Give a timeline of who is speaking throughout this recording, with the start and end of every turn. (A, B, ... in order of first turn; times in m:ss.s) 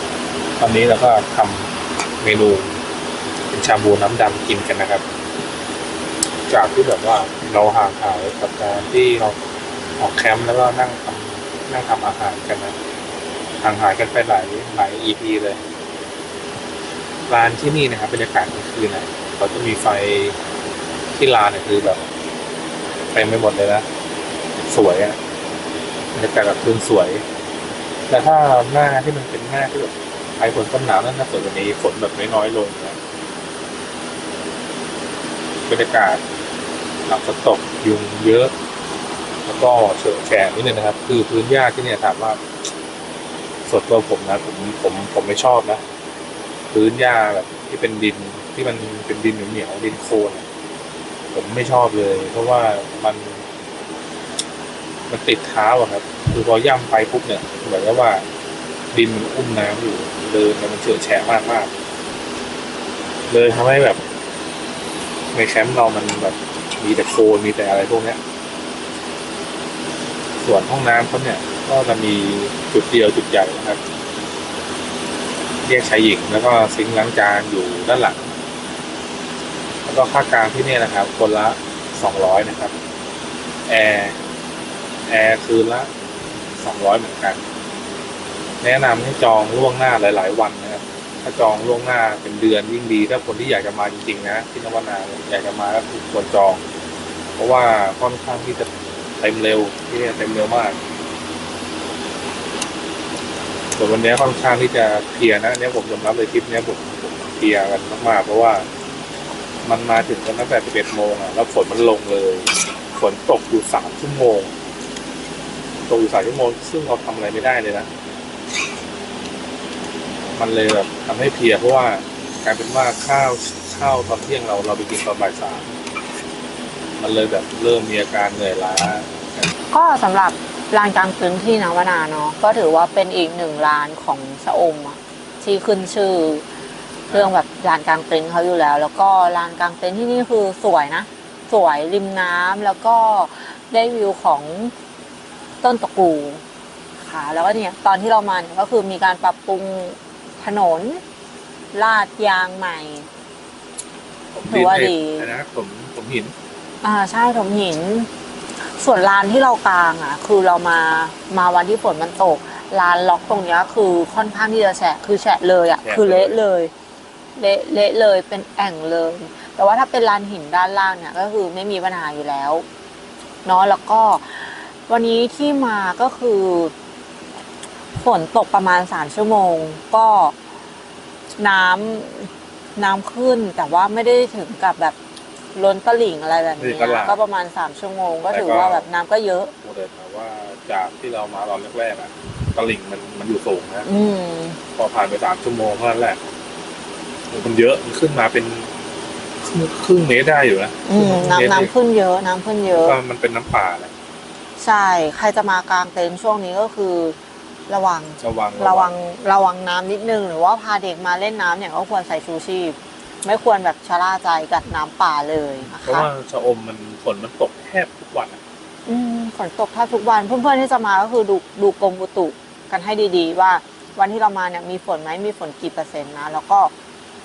0:00.6-0:02.8 A
0:03.5-0:05.0 A
0:06.5-0:09.4 A
0:10.0-0:12.8 A
0:13.6-0:15.6 A
0:17.3-0:20.4 A
0:21.2-0:22.0 A
0:23.1-0:23.9 A
0:24.7-0:25.2 A
0:26.1-0:27.2 A
0:28.1-0:33.0 A
0:35.7-0:36.2 A
0:37.1-0:38.5 A
0:39.4-0:42.4 A
0:43.7-0:45.8 A
0:46.7-0:50.5 A
0:51.3-0:53.4 A
0:55.1-0:58.3 A
0:58.9-1:01.7 A
1:03.3-1:04.0 A
1:05.3-1:08.2 A
1:10.4-1:13.8 A
1:15.6-1:18.3 A
1:19.8-1:22.7 A
1:23.7-1:24.2 A
1:25.1-1:25.9 A
1:26.6-1:27.4 A
1:28.6-1:36.6 A
1:37.4-1:40.8 A
1:43.8-1:48.7 A
1:49.6-1:54.5 A
1:55.9-1:57.9 A
2:00.4-2:05.8 A
2:07.0-2:09.5 A
2:09.7-2:16.4 B
2:17.1-2:24.7 B
2:25.6-2:26.4 B
2:27.0-2:31.0 B
2:31.7-2:33.1 B
2:34.3-2:36.3 A
2:34.5-2:35.3 B
2:36.8-2:38.1 B
2:38.8-2:46.7 B
2:47.4-2:52.6 B
2:53.4-2:56.7 B
2:58.0-3:00.4 B
3:01.4-3:05.0 B
3:05.6-3:09.5 B
3:06.6-3:07.2 A
3:08.3-3:08.9 A
3:09.6-3:13.9 A
3:13.8-3:14.6 B
3:14.8-3:16.2 A
3:17.3-3:18.7 A
3:19.4-3:21.7 A
3:20.9-3:23.0 B
3:22.8-3:23.9 A
3:24.6-3:27.2 B
3:27.7-3:36.1 B
3:28.2-3:28.9 A
3:36.0-3:38.4 A
3:38.9-3:46.7 B